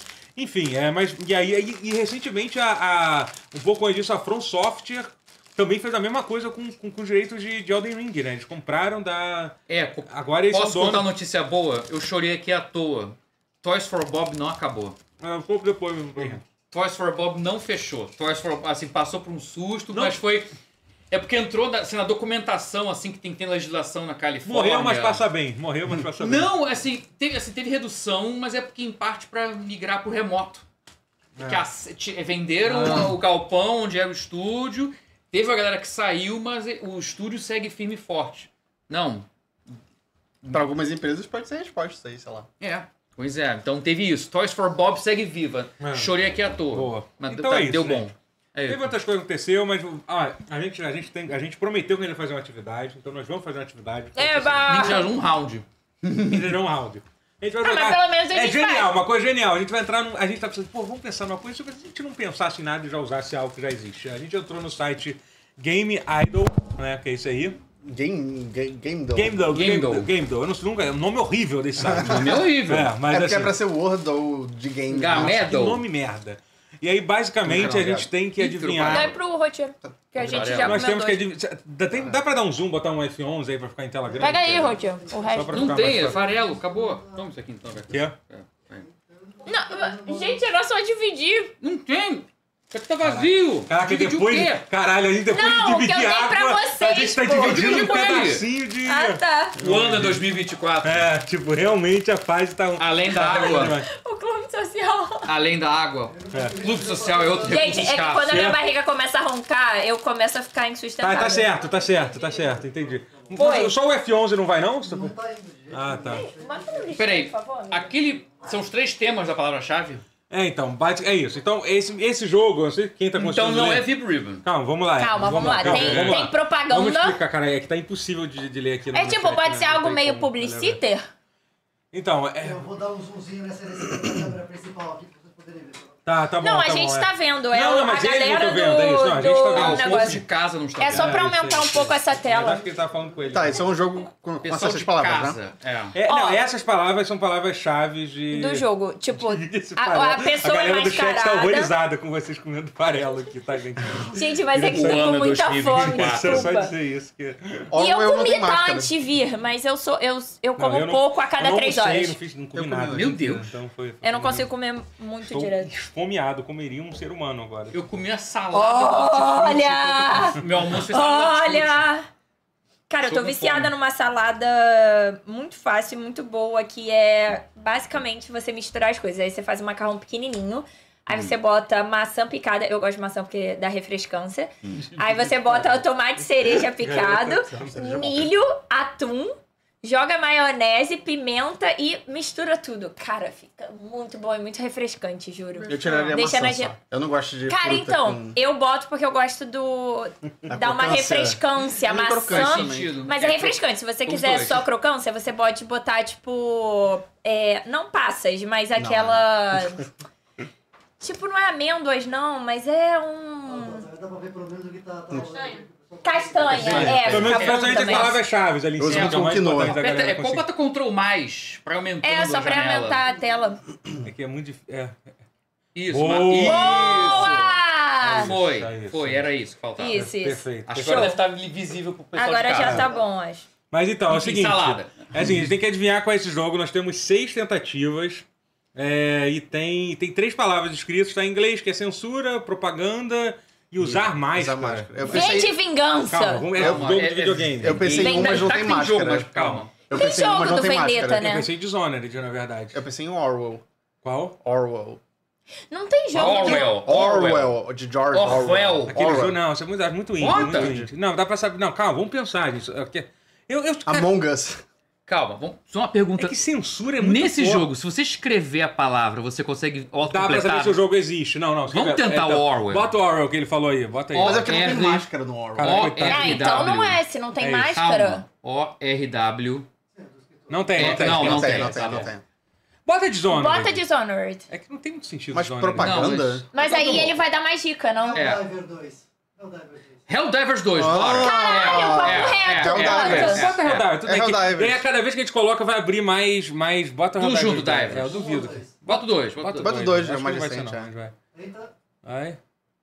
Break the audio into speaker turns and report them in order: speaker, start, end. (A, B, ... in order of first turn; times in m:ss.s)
0:00.4-0:09.6 A
0:09.7-0:15.0 B
0:10.1-0:11.1 A
0:15.2-0:16.4 A
0:16.7-0:20.5 B
0:19.9-0:20.2 A
0:21.1-0:25.2 B
0:24.4-0:26.5 A
0:26.2-0:30.6 B
0:31.4-0:31.6 A
0:31.4-0:39.3 B
0:32.6-0:33.2 A
0:40.5-0:42.5 C
0:42.6-0:48.9 B
0:45.8-0:46.1 A
0:46.7-0:48.1 A
0:48.7-0:54.9 A
0:54.2-0:55.1 D
0:54.7-0:56.5 B
0:56.3-1:07.6 A
0:57.6-0:58.9 D
1:07.8-1:09.5 C
1:09.1-1:13.6 A
1:09.5-1:10.1 B
1:11.8-1:12.4 C
1:11.9-1:12.9 B
1:13.1-1:15.5 C
1:14.9-1:15.8 B
1:15.1-1:19.1 A
1:17.4-1:18.1 C
1:17.5-1:19.2 B
1:18.8-1:21.2 D
1:20.2-1:20.8 B
1:20.3-1:26.3 A
1:24.1-1:27.2 E
1:24.2-1:25.7 D
1:25.5-1:28.9 B
1:27.9-1:28.2 A
1:28.9-1:30.4 E
1:29.4-1:31.5 D
1:31.6-1:34.6 B
1:33.0-1:40.3 A
1:35.3-1:39.6 D
1:37.3-1:38.4 B
1:39.6-1:41.1 B
1:40.8-1:43.9 A
1:42.8-1:43.8 B
1:43.6-1:45.3 D
1:45.2-1:48.4 B
1:46.1-1:48.0 E
1:46.3-1:46.6 A
1:47.4-1:51.8 D
1:48.2-1:48.6 A
1:51.0-1:55.2 A
1:51.5-1:53.6 E
1:53.4-1:53.8 D
1:54.8-1:57.1 E
1:55.7-1:56.2 A
1:56.1-1:57.9 D
1:57.0-2:00.0 B
2:00.3-2:03.9 A
2:03.2-2:04.4 B
2:04.4-2:10.8 A
2:05.0-2:07.2 D
2:05.4-2:06.2 B
2:08.9-2:11.1 D
2:11.9-2:12.7 A
2:12.4-2:16.0 E
2:16.0-2:20.2 A
2:16.4-2:20.2 D
2:19.5-2:21.3 B
2:20.8-2:22.7 D
2:20.9-2:23.7 A
2:22.3-2:23.6 E
2:23.3-2:25.4 C
2:24.4-2:26.0 B
2:25.9-2:37.7 A
2:26.1-2:26.4 D
2:28.3-2:31.7 D
2:34.1-2:36.7 D
2:34.7-2:36.5 B
2:37.7-2:38.9 C
2:37.7-2:42.2 D
2:40.6-2:44.5 A
2:42.5-2:43.5 C
2:42.9-2:43.5 B
2:44.0-2:45.7 D
2:45.2-2:47.8 A
2:47.7-2:51.8 B
2:48.5-2:52.1 D
2:52.9-3:16.8 D
2:53.1-2:53.7 B
3:06.8-3:07.7 A
3:07.5-3:08.3 C
3:15.7-3:16.2 B
3:15.7-3:18.4 C
3:17.5-3:29.9 D
3:20.5-3:23.0 C
3:22.3-3:24.6 B
3:28.8-3:29.2 C
3:31.0-3:33.8 D
3:33.5-3:37.4 E
3:36.0-3:38.2 D
3:36.6-3:40.5 A
3:36.7-3:37.4 C
3:37.2-3:38.1 B
3:38.8-3:39.8 C
3:38.9-3:43.0 B
3:42.0-3:43.6 D
3:44.0-3:45.0 A
3:45.8-3:47.6 B
3:45.9-3:47.4 A
3:46.4-3:48.3 D
3:48.0-3:49.3 A
3:48.1-3:50.1 B
3:49.8-3:51.2 D
3:49.9-3:51.2 A
3:50.7-3:52.9 B
3:52.2-3:53.5 D
3:53.7-4:05.4 A
3:54.1-3:55.1 B
4:03.8-4:05.5 C
4:05.1-4:06.5 D
4:06.1-4:08.1 A
4:06.6-4:09.7 B
4:06.6-4:11.4 C
4:08.0-4:08.5 D
4:09.3-4:09.6 A
4:09.9-4:11.5 D
4:11.1-4:12.8 A
4:12.7-4:13.6 C
4:14.0-4:14.4 A
4:14.4-4:15.0 C
4:15.7-4:16.8 D
4:16.1-4:17.6 B
4:16.2-4:19.4 C
4:18.1-4:18.9 B
4:18.9-4:24.1 A
4:20.2-4:20.8 B
4:20.2-4:20.9 C
4:23.9-4:24.6 C
4:25.1-4:26.4 B
4:26.2-4:27.7 A
4:27.0-4:30.8 B
4:30.0-4:34.8 A
4:31.7-4:32.9 B
4:34.1-4:37.0 B
4:34.2-4:36.0 C
4:35.6-4:37.9 A
4:36.1-4:38.2 D
4:37.8-4:39.7 B
4:40.0-4:41.6 E
4:40.5-4:42.1 A
4:40.8-4:42.1 B
4:40.8-4:42.2 C
4:42.9-4:43.8 A
4:43.3-4:44.5 D
4:44.5-4:47.1 A
4:45.3-4:46.4 C
4:45.7-4:46.4 B
4:46.5-4:48.2 D
4:48.0-4:50.0 E
4:48.1-4:48.4 B
4:50.1-4:53.9 B
4:50.8-4:54.8 C
4:51.2-4:53.5 D
4:52.8-5:01.2 A
4:57.2-4:58.2 B
4:58.1-4:58.7 E
4:58.8-4:59.8 B
4:59.6-5:00.9 C
5:01.3-5:01.7 E
5:02.0-5:02.4 A